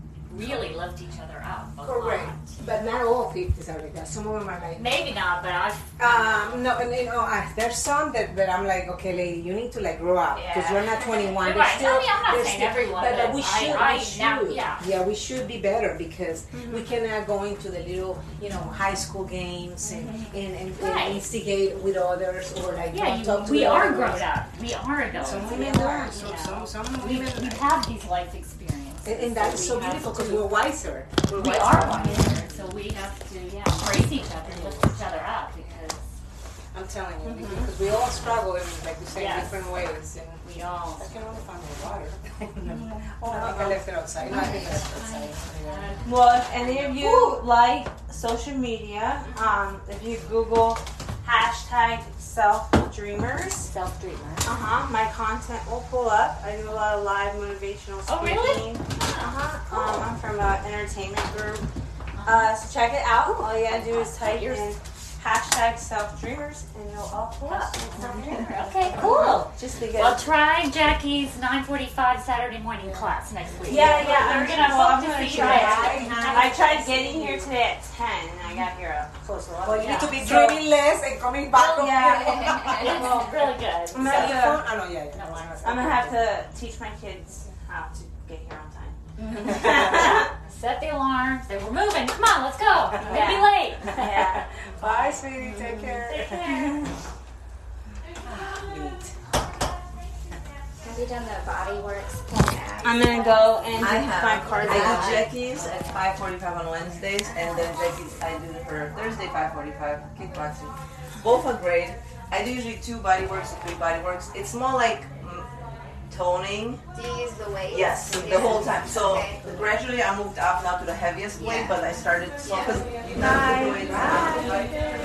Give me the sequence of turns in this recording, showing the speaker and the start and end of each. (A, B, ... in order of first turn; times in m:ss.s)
0:00.3-0:02.5 A
0:01.8-0:05.0 B
0:04.7-0:06.7 A
0:06.0-0:24.3 B
0:11.3-0:14.8 A
0:16.5-0:16.9 C
0:20.7-0:21.2 A
0:22.9-0:30.5 A
0:25.1-0:27.6 B
0:29.0-0:32.7 B
0:31.3-0:36.0 A
0:34.5-0:34.8 B
0:36.7-0:40.4 B
0:37.2-0:37.7 C
0:39.1-0:39.8 A
0:40.4-0:41.1 A
0:41.0-0:46.0 B
0:43.2-0:43.8 C
0:44.2-0:47.4 A
0:46.0-0:53.7 C
0:53.6-0:54.5 A
0:54.4-1:01.6 C
0:58.1-1:00.0 A
1:02.2-1:02.5 A
1:02.2-1:10.3 C
1:03.2-1:04.7 A
1:07.4-1:17.4 A
1:07.9-1:08.5 B
1:12.8-1:17.5 B
1:13.6-1:20.6 C
1:19.6-1:23.3 B
1:19.8-1:20.5 A
1:21.5-1:24.5 A
1:21.6-1:23.0 C
1:23.9-1:24.7 C
1:23.9-1:26.2 B
1:25.1-1:25.7 A
1:25.6-1:30.3 C
1:29.3-1:29.8 B
1:29.6-1:35.2 A
1:33.0-1:33.3 B
1:33.8-1:34.5 C
1:34.8-1:36.8 B
1:35.4-1:36.0 C
1:35.7-1:36.9 A
1:38.4-1:39.1 B
1:40.8-1:45.3 D
1:42.8-1:45.3 C
1:43.8-1:55.4 E
1:56.1-1:56.8 E
1:56.9-1:59.5 D
1:57.7-2:04.7 E
2:01.3-2:01.9 D
2:02.4-2:02.8 D
2:03.1-2:04.6 C